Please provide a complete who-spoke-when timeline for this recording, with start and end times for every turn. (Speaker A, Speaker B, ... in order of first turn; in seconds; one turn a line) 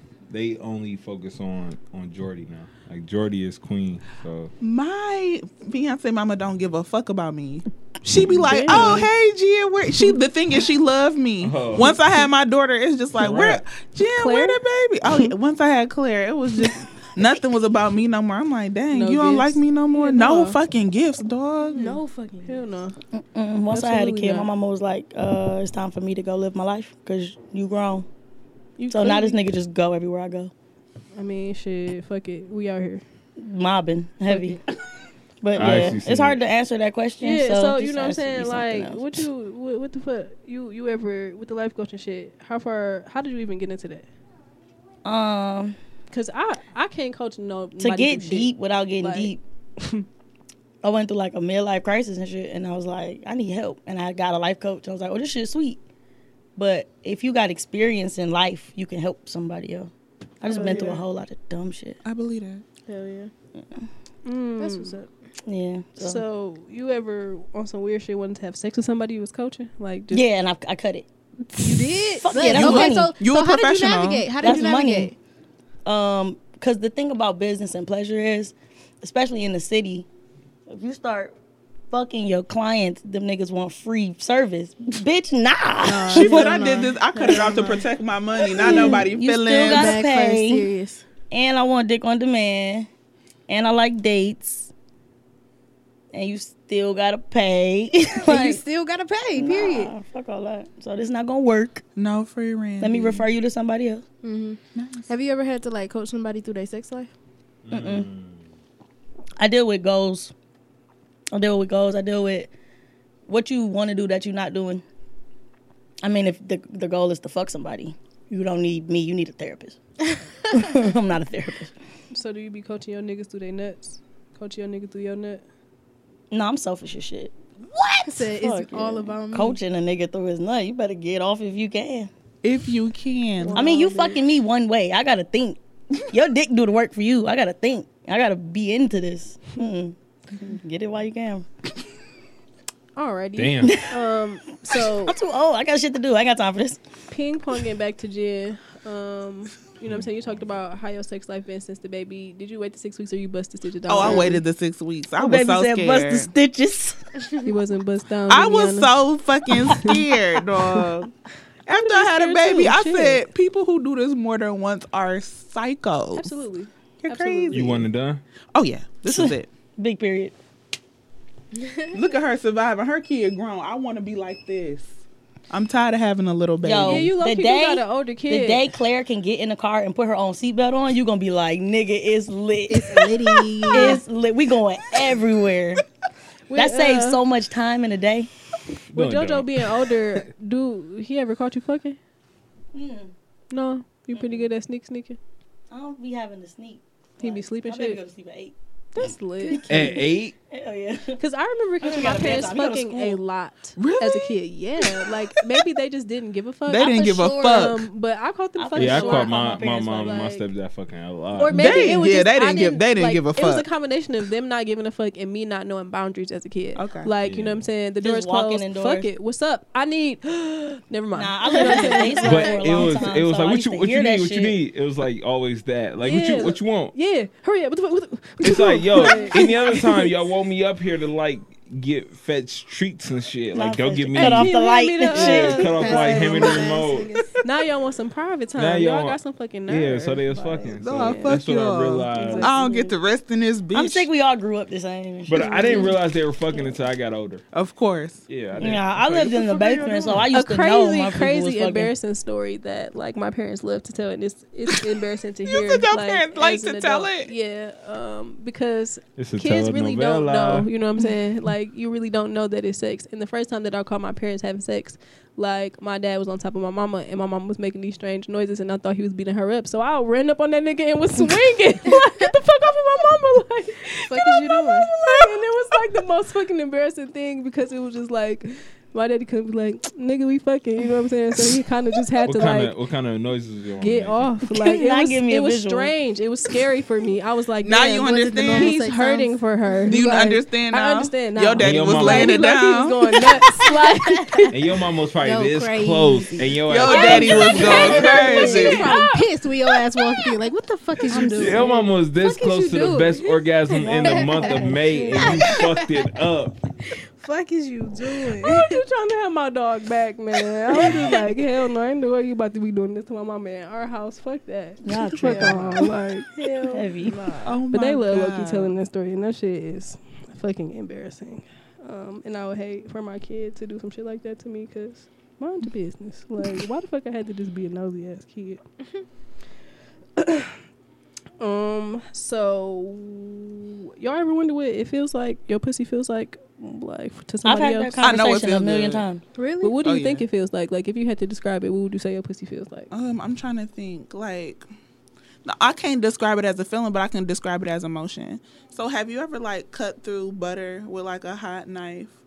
Speaker A: 0.3-4.5
Speaker B: 4.6-22.0
Speaker C: 8.5-9.1
Speaker A: 11.4-12.0
Speaker A: 13.2-13.6
Speaker C: 14.0-14.6
Speaker C: 18.9-20.6
Speaker D: 21.7-22.6
Speaker C: 21.8-23.0
Speaker E: 23.1-28.1
Speaker C: 23.7-24.5
Speaker C: 28.8-29.4
Speaker E: 28.9-30.5
Speaker C: 31.1-33.0
Speaker E: 33.4-34.6
Speaker C: 34.3-34.6
Speaker E: 35.4-39.2
Speaker A: 35.5-36.4
Speaker C: 37.2-44.1
Speaker E: 45.0-45.8
Speaker C: 46.1-50.1
Speaker E: 47.8-49.4
Speaker E: 50.8-55.8
Speaker E: 56.6-62.0
Speaker D: 60.5-61.0
Speaker C: 60.5-61.0
Speaker B: 62.0-62.6
Speaker D: 62.9-63.3
Speaker E: 63.6-63.8
Speaker C: 64.2-65.0
Speaker D: 64.6-65.1
Speaker E: 65.5-66.2
Speaker C: 66.0-70.2
Speaker E: 70.1-71.1
Speaker C: 71.5-72.0
Speaker D: 71.6-75.2
Speaker E: 72.2-73.1
Speaker B: 72.5-74.5
Speaker E: 74.4-75.1
Speaker E: 75.8-80.1
Speaker E: 80.7-81.3
Speaker E: 81.9-86.6
Speaker D: 85.8-87.9
Speaker B: 86.1-90.0
Speaker D: 88.4-89.1
Speaker E: 88.6-90.7
Speaker D: 89.6-91.0
Speaker E: 91.3-92.9
Speaker E: 93.5-94.7
Speaker E: 96.1-98.6
Speaker D: 98.2-99.9
Speaker E: 99.4-101.8
Speaker B: 102.0-103.3
Speaker E: 102.8-104.0
Speaker D: 104.2-107.1
Speaker B: 104.8-105.1
Speaker A: 107.6-108.4
Speaker E: 107.7-108.1
Speaker E: 109.4-110.3
Speaker E: 111.3-112.5
Speaker E: 113.3-114.8
Speaker E: 116.0-119.8
Speaker E: 120.5-121.7
Speaker C: 122.1-125.4
Speaker E: 126.3-132.1
Speaker D: 127.9-129.6
Speaker B: 132.4-133.6
Speaker C: 133.4-134.2
Speaker E: 133.5-141.4
Speaker C: 142.9-145.2
Speaker A: 143.4-143.8
Speaker E: 143.6-144.0
Speaker E: 144.7-146.8
Speaker C: 147.1-154.4
Speaker B: 153.9-156.3
Speaker E: 155.2-157.0
Speaker C: 157.4-159.0
Speaker B: 158.3-161.1
Speaker C: 159.6-160.0
Speaker B: 161.7-166.3
Speaker C: 161.7-163.3
Speaker C: 166.2-167.8
Speaker B: 167.0-167.8
Speaker A: 167.5-168.2
Speaker B: 168.6-169.5
Speaker E: 169.1-170.3
Speaker D: 171.5-171.9
Speaker B: 171.9-174.9
Speaker B: 175.5-177.1
Speaker E: 176.6-183.1
Speaker C: 176.8-178.7
Speaker D: 182.7-184.0
Speaker E: 183.7-185.8
Speaker C: 186.5-187.2
Speaker E: 186.5-188.3
Speaker A: 188.9-190.2
Speaker C: 188.9-192.0
Speaker E: 192.7-193.1
Speaker C: 193.5-195.2
Speaker E: 195.7-201.2
Speaker C: 197.2-198.0
Speaker C: 198.9-199.9
Speaker A: 199.7-200.3
Speaker C: 201.2-210.4
Speaker E: 201.8-203.2
Speaker B: 203.8-204.3
Speaker B: 206.7-207.9
Speaker E: 208.6-209.8
Speaker A: 208.8-212.0
Speaker C: 211.3-222.9
Speaker B: 211.5-213.7
Speaker B: 216.8-217.1
Speaker A: 217.2-217.6
Speaker E: 218.0-219.1
Speaker E: 221.1-224.6
Speaker A: 222.2-226.9
Speaker C: 226.0-230.1
Speaker A: 228.4-234.6
Speaker E: 233.5-235.8
Speaker C: 234.2-236.6
Speaker A: 235.1-237.1
Speaker D: 235.6-237.3
Speaker C: 237.4-241.4
Speaker A: 238.6-242.6
Speaker B: 240.8-244.1
Speaker C: 242.1-242.9
Speaker E: 243.7-245.8
Speaker A: 245.3-247.4
Speaker C: 245.4-246.0
Speaker B: 247.5-248.2
Speaker A: 248.3-249.3
Speaker E: 248.6-251.9
Speaker B: 249.1-250.2
Speaker C: 250.3-282.7
Speaker B: 255.5-257.3
Speaker A: 259.2-260.7
Speaker D: 274.1-274.9
Speaker A: 282.3-284.3
Speaker C: 283.8-294.5
Speaker E: 284.6-285.9
Speaker B: 287.6-288.8
Speaker D: 288.1-290.1
Speaker B: 289.9-293.2
Speaker A: 291.6-292.4
Speaker D: 293.3-294.5
Speaker A: 294.5-298.7
Speaker D: 295.2-296.6
Speaker B: 296.6-298.9
Speaker C: 296.9-299.3
Speaker D: 297.1-306.1
Speaker A: 301.1-306.6
Speaker C: 301.1-301.8
Speaker E: 304.0-304.8
Speaker D: 306.8-308.8
Speaker C: 308.4-316.3
Speaker D: 310.7-311.3
Speaker E: 314.8-315.9
Speaker D: 315.2-315.5
Speaker D: 316.3-317.6
Speaker E: 316.7-317.2
Speaker B: 317.4-318.7
Speaker C: 317.7-328.6
Speaker C: 330.2-330.6
Speaker C: 331.4-338.3
Speaker E: 337.4-339.2
Speaker B: 338.0-339.0
Speaker D: 339.4-339.8
Speaker C: 339.6-342.9
Speaker B: 339.8-340.2
Speaker B: 342.9-344.6
Speaker B: 345.4-352.1